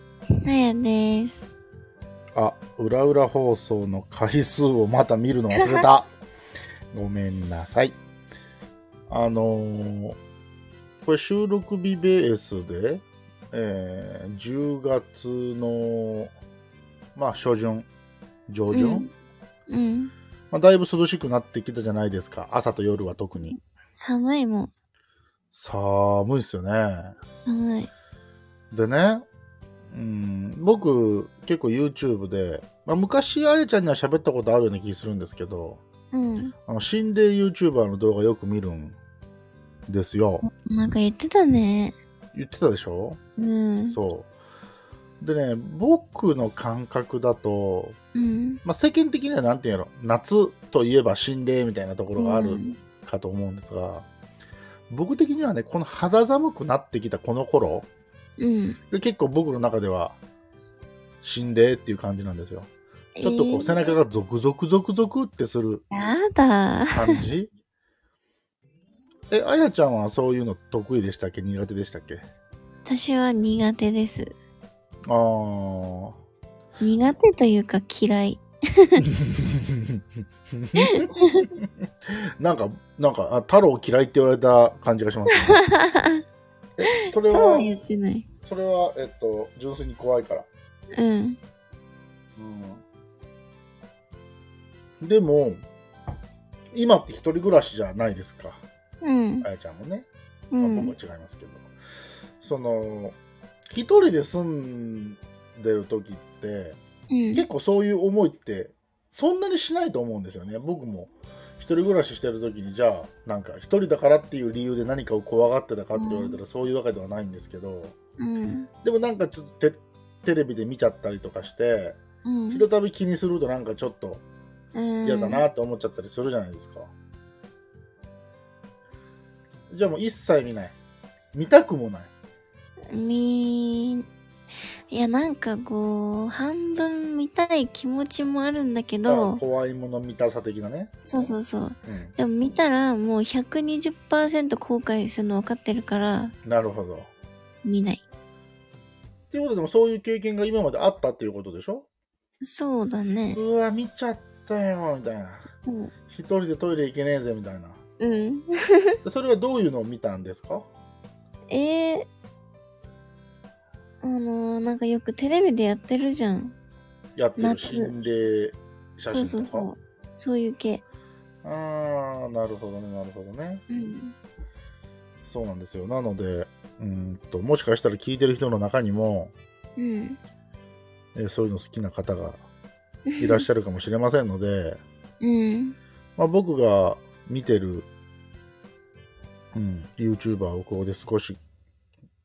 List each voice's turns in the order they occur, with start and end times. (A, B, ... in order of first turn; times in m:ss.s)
0:00.4-0:01.5 A
0:02.3-0:06.1 B
0:05.5-0:05.8 A
0:06.9-0:08.0 B
0:09.1-0:10.2 B
0:11.0-0:16.3 B
0:17.2-0:17.9 B
0:18.5-0:19.1 B
0:18.7-0:19.1 A
0:19.7-0:20.1 A
0:20.5-0:23.6 B
0:23.9-0:24.7 A
0:25.5-0:27.2 B
0:27.4-0:27.9 A
0:28.7-0:29.2 B
0:29.9-0:35.8 B
0:36.1-0:36.5 A
0:36.7-0:39.0 B
0:39.9-0:40.4 B
0:40.6-0:41.9 A
0:42.3-0:43.2 B
0:43.4-0:44.0 A
0:43.9-0:44.3 B
0:45.2-0:48.0 B
0:48.1-0:48.6 A
0:48.6-0:54.1 B
0:52.2-0:52.8 A
0:54.9-0:57.9 B
0:58.4-0:58.8 A
0:58.9-1:00.2 B
1:01.2-1:02.7 B
1:03.2-1:04.0 A
1:03.2-1:05.8 B
1:05.9-1:07.2 A
1:06.9-1:07.5 B
1:09.3-1:12.2 B
1:12.8-1:14.3 A
1:15.1-1:16.2 B
1:16.8-1:19.0 A
1:19.2-1:20.0 B
1:20.5-1:21.7 B
1:22.4-1:25.6 B
1:25.3-1:26.2 A
1:26.8-1:27.7 B
1:27.1-1:28.2 A
1:28.4-1:30.5 B
1:30.9-1:31.4 A
1:32.4-1:32.8 B
1:35.0-1:35.6 B
1:36.7-1:38.6 B
1:39.0-1:39.4 A
1:39.4-1:40.1 B
1:40.5-1:40.9 A
1:40.6-1:41.7 B
1:42.4-1:43.2 B
1:43.7-1:46.8 B
1:47.1-1:47.4 A
1:47.3-1:58.0 B
1:55.9-1:56.4 A
1:58.2-1:58.7 A
1:58.8-2:02.0 B
2:02.2-2:02.6 A
2:02.5-2:04.2 B
2:04.7-2:05.4 A
2:05.0-2:06.9 B
2:09.7-2:10.8 B
2:11.3-2:12.1 B
2:12.9-2:14.0 A
2:14.9-2:19.4 A
2:19.1-2:21.3 B
2:21.0-2:26.3 A
2:21.8-2:22.1 B
2:26.4-2:27.1 B
2:27.6-2:28.0 A
2:29.3-2:31.9 B
2:32.4-2:33.4 A
2:33.3-2:35.4 B
2:35.6-2:35.9 A
2:36.1-2:37.8 B
2:38.0-2:38.9 A
2:39.0-2:40.7 B
2:41.5-2:42.1 A
2:44.0-2:46.5 A
2:47.2-2:49.7 B
2:47.4-2:47.9 A
2:49.1-2:50.8 A
2:51.4-2:53.6 B
2:53.7-2:54.1 A
2:55.2-2:59.3 B
2:59.8-3:00.2 A
3:01.2-3:02.4 B
3:03.1-3:03.4 A
3:03.2-3:04.8 B
3:05.2-3:05.8 A
3:06.2-3:07.9 B
3:09.5-3:11.4 B